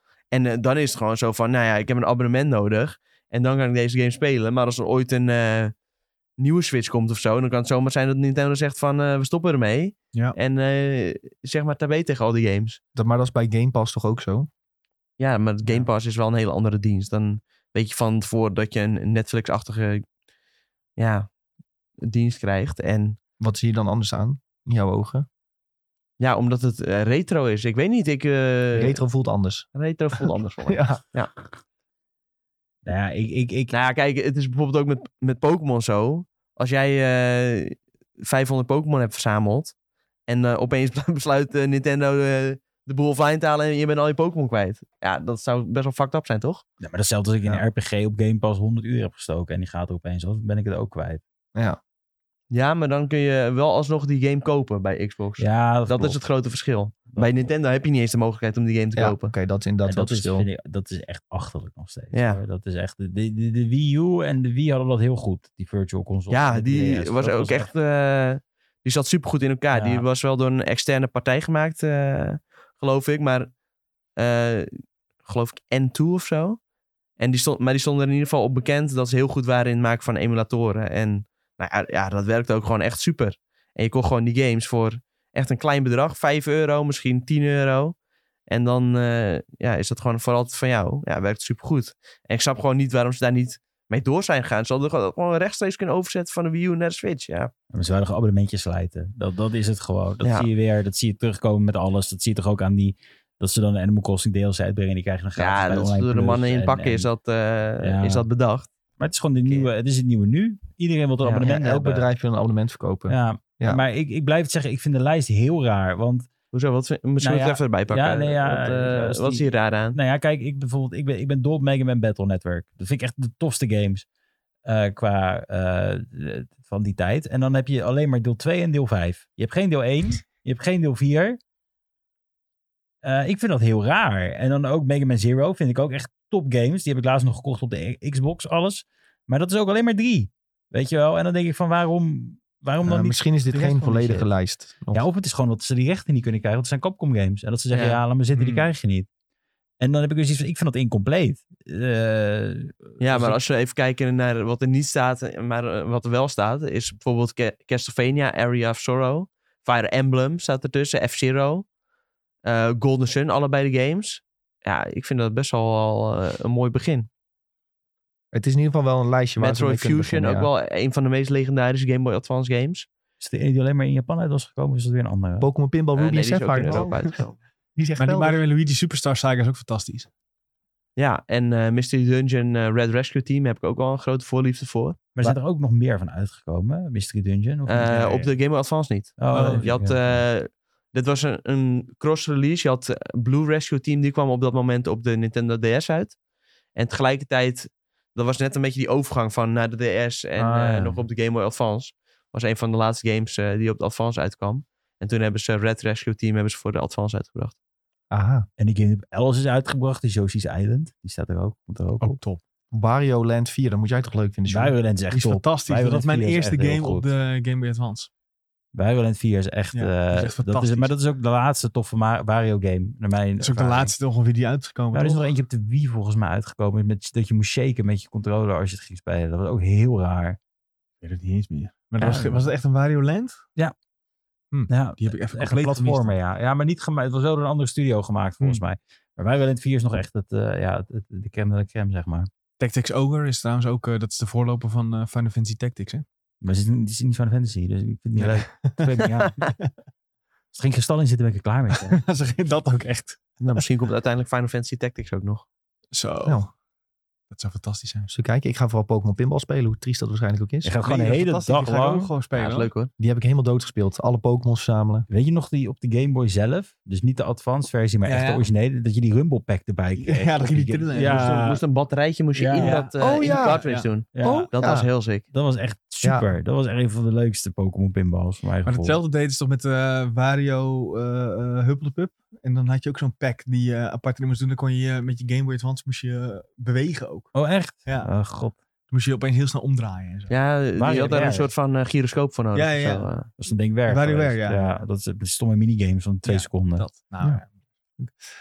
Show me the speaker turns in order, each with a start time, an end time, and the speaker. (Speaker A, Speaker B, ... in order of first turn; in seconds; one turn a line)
Speaker A: 0.3-5.7
Speaker A: 6.4-12.8
Speaker B: 12.9-14.5
Speaker A: 15.2-20.0
Speaker A: 21.0-21.3
Speaker A: 22.0-23.2
Speaker B: 23.4-25.2
Speaker A: 26.2-29.0
Speaker B: 28.7-29.7
Speaker A: 29.7-31.3
Speaker B: 30.7-31.0
Speaker C: 32.8-33.7
Speaker A: 33.7-39.7
Speaker A: 40.3-46.6
Speaker C: 46.8-51.2
Speaker A: 52.5-59.3
Speaker C: 55.4-56.2
Speaker C: 57.1-57.5
Speaker B: 59.0-60.5
Speaker C: 59.8-67.7
Speaker A: 62.1-62.4
Speaker A: 66.3-73.5
Speaker C: 69.7-70.0
Speaker A: 74.2-76.6
Speaker A: 77.2-88.0
Speaker A: 88.5-97.5
Speaker C: 97.7-107.1
Speaker A: 100.2-100.5
Speaker A: 105.4-108.7
Speaker C: 107.8-108.3
Speaker C: 109.0-112.0
Speaker A: 109.4-109.7
Speaker B: 111.4-113.8
Speaker C: 113.1-116.3
Speaker A: 116.5-120.0
Speaker C: 117.2-124.0
Speaker C: 124.6-131.4
Speaker C: 133.0-143.2
Speaker B: 142.8-145.0
Speaker D: 143.5-144.2
Speaker C: 144.9-149.1
Speaker A: 147.7-148.0
Speaker D: 148.3-148.7
Speaker C: 149.8-153.4
Speaker A: 153.0-161.7
Speaker A: 162.4-167.1
Speaker B: 168.3-170.5
Speaker A: 169.4-172.9
Speaker C: 173.2-175.5
Speaker B: 175.4-177.1
Speaker A: 175.9-177.4
Speaker B: 177.8-178.4
Speaker D: 178.0-180.1
Speaker A: 180.9-185.0
Speaker C: 185.1-188.1
Speaker A: 187.7-196.2
Speaker D: 187.9-188.3
Speaker C: 189.2-190.2
Speaker D: 189.3-189.7
Speaker A: 196.7-207.5
Speaker C: 200.4-201.0
Speaker B: 208.1-208.4
Speaker C: 208.6-212.2
Speaker D: 212.0-212.4
Speaker B: 212.7-214.8
Speaker C: 214.5-217.1
Speaker D: 215.1-218.1
Speaker C: 218.7-223.9
Speaker D: 219.7-220.9
Speaker D: 223.4-225.3
Speaker C: 224.9-230.4
Speaker D: 231.0-233.4
Speaker C: 232.0-232.5
Speaker D: 234.5-236.1
Speaker C: 234.7-242.3
Speaker D: 242.6-246.0
Speaker C: 246.4-249.4
Speaker D: 248.2-249.7
Speaker B: 248.8-249.1
Speaker C: 250.5-252.0
Speaker D: 251.7-253.2
Speaker A: 253.4-255.4
Speaker D: 255.9-256.4
Speaker B: 256.2-256.5
Speaker D: 257.3-258.1
Speaker B: 258.1-260.7
Speaker C: 260.6-262.1
Speaker D: 260.8-262.7
Speaker A: 262.3-262.9
Speaker B: 263.0-265.1
Speaker C: 265.1-271.6
Speaker D: 268.1-268.4
Speaker D: 270.0-271.6
Speaker A: 271.0-275.2
Speaker C: 272.4-272.8
Speaker D: 272.5-273.9
Speaker B: 273.0-273.7
Speaker C: 274.1-274.5
Speaker B: 274.2-274.9
Speaker C: 275.3-279.0
Speaker B: 276.0-276.3
Speaker D: 278.6-287.3
Speaker C: 287.3-288.6
Speaker D: 287.8-288.1
Speaker D: 288.9-290.3
Speaker A: 290.3-293.3
Speaker C: 290.8-291.5
Speaker D: 292.5-293.1
Speaker C: 293.4-296.9
Speaker D: 293.9-294.8
Speaker D: 296.2-297.5